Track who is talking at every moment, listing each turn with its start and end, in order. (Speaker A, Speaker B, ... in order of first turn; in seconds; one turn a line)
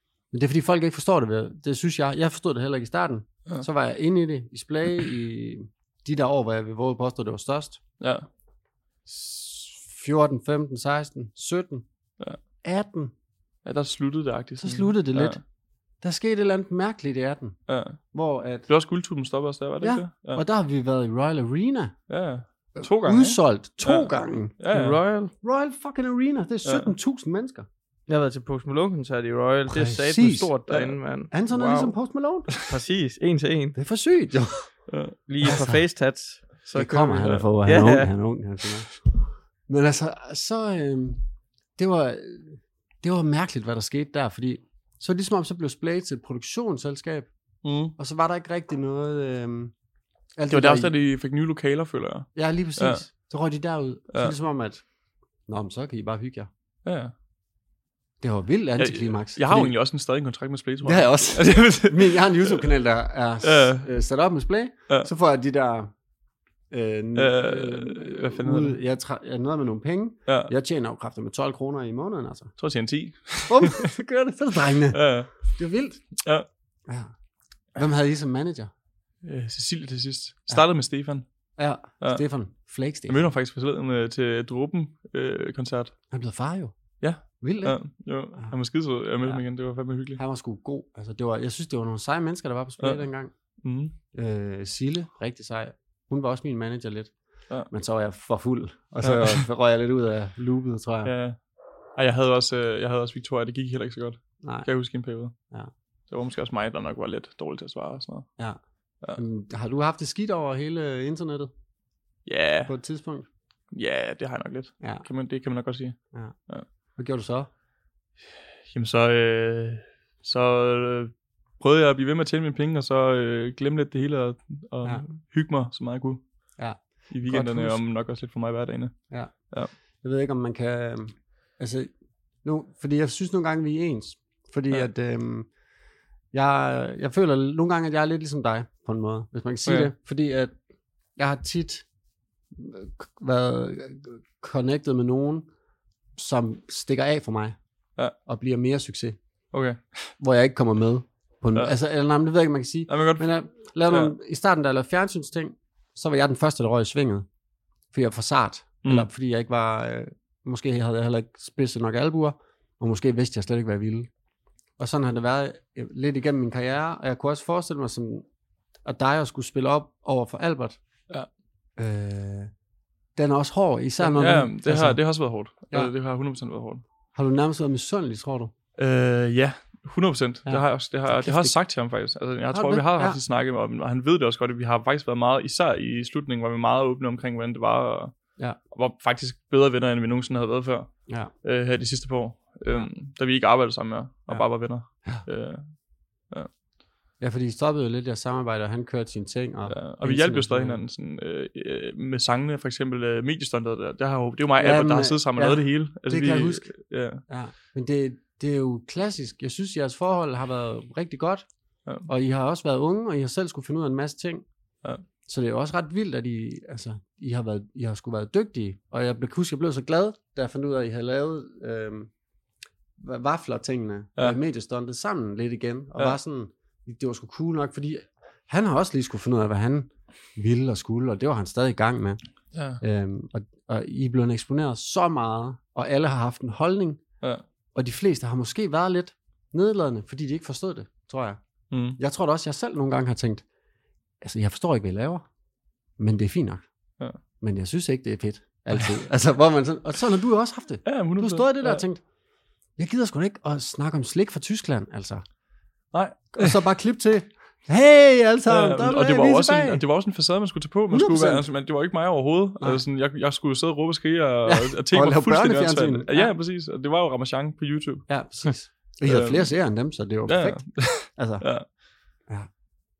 Speaker A: 0.3-7.8
Speaker B: 8.0-8.3
Speaker A: 9.1-11.8
Speaker A: 12.6-13.1
Speaker B: 13.6-15.4
Speaker A: 14.6-15.4
Speaker A: 16.0-17.6
Speaker B: 17.7-18.0
Speaker A: 18.1-18.7
Speaker B: 18.7-20.4
Speaker A: 19.8-21.9
Speaker B: 22.1-25.0
Speaker A: 22.8-24.7
Speaker C: 24.7-25.3
Speaker A: 25.3-27.7
Speaker B: 26.6-26.9
Speaker C: 28.1-31.9
Speaker A: 29.7-30.5
Speaker B: 30.7-31.0
Speaker A: 31.3-32.5
Speaker C: 32.6-33.8
Speaker A: 33.7-34.8
Speaker B: 34.9-35.2
Speaker C: 35.3-36.7
Speaker A: 35.4-35.8
Speaker B: 36.6-37.5
Speaker A: 36.7-41.2
Speaker C: 37.6-38.1
Speaker A: 41.8-47.3
Speaker B: 47.6-47.9
Speaker A: 48.0-49.7
Speaker A: 50.4-50.9
Speaker B: 50.5-53.0
Speaker A: 52.3-54.8
Speaker A: 55.5-56.5
Speaker B: 56.8-57.1
Speaker A: 58.2-59.7
Speaker B: 58.8-62.7
Speaker A: 60.8-65.9
Speaker B: 63.4-63.9
Speaker A: 66.7-72.5
Speaker B: 67.2-68.8
Speaker B: 70.3-70.5
Speaker B: 72.6-73.9
Speaker A: 73.5-76.1
Speaker B: 74.9-75.4
Speaker B: 76.2-76.5
Speaker A: 76.9-77.1
Speaker A: 77.7-78.7
Speaker B: 79.2-81.2
Speaker A: 81.6-83.3
Speaker B: 83.1-85.9
Speaker A: 86.1-86.7
Speaker B: 87.0-90.2
Speaker A: 87.3-87.8
Speaker A: 90.2-93.3
Speaker B: 93.6-93.9
Speaker A: 94.1-97.1
Speaker A: 97.7-101.1
Speaker B: 99.0-99.4
Speaker B: 101.0-101.4
Speaker B: 101.9-105.3
Speaker A: 104.4-104.7
Speaker B: 106.1-108.3
Speaker A: 109.2-111.5
Speaker B: 112.2-112.7
Speaker A: 112.7-113.3
Speaker B: 113.7-116.7
Speaker A: 117.0-117.5
Speaker B: 118.7-126.2
Speaker A: 126.6-127.8
Speaker B: 127.1-129.7
Speaker A: 130.0-131.9
Speaker A: 132.4-135.5
Speaker A: 136.3-140.5
Speaker B: 139.6-139.9
Speaker A: 141.2-141.8
Speaker A: 142.5-145.5
Speaker A: 146.2-147.6
Speaker A: 148.2-149.2
Speaker B: 149.5-150.1
Speaker A: 150.2-157.2
Speaker B: 152.9-153.3
Speaker B: 153.9-154.1
Speaker A: 157.9-164.1
Speaker B: 158.8-159.1
Speaker A: 164.8-168.2
Speaker A: 168.8-170.8
Speaker A: 171.8-172.5
Speaker A: 173.2-175.9
Speaker B: 174.0-176.8
Speaker A: 177.1-178.5
Speaker B: 178.8-195.8
Speaker A: 180.4-181.6
Speaker A: 182.5-183.2
Speaker A: 194.3-195.2
Speaker A: 197.2-200.8
Speaker B: 199.7-207.2
Speaker A: 204.6-206.7
Speaker A: 207.3-211.5
Speaker A: 212.1-214.4
Speaker A: 215.2-222.1
Speaker A: 223.0-232.2
Speaker B: 232.5-232.8
Speaker A: 232.8-237.0
Speaker A: 237.7-241.4
Speaker B: 241.7-242.0
Speaker A: 242.0-243.4
Speaker A: 244.2-245.2
Speaker A: 246.0-246.7
Speaker A: 247.4-252.0
Speaker B: 250.8-251.8
Speaker A: 252.8-255.2
Speaker B: 255.9-256.6
Speaker A: 256.3-259.8
Speaker B: 258.5-268.1
Speaker A: 260.9-261.4
Speaker A: 264.4-266.3
Speaker A: 268.1-271.5
Speaker B: 269.0-269.5
Speaker B: 270.2-271.7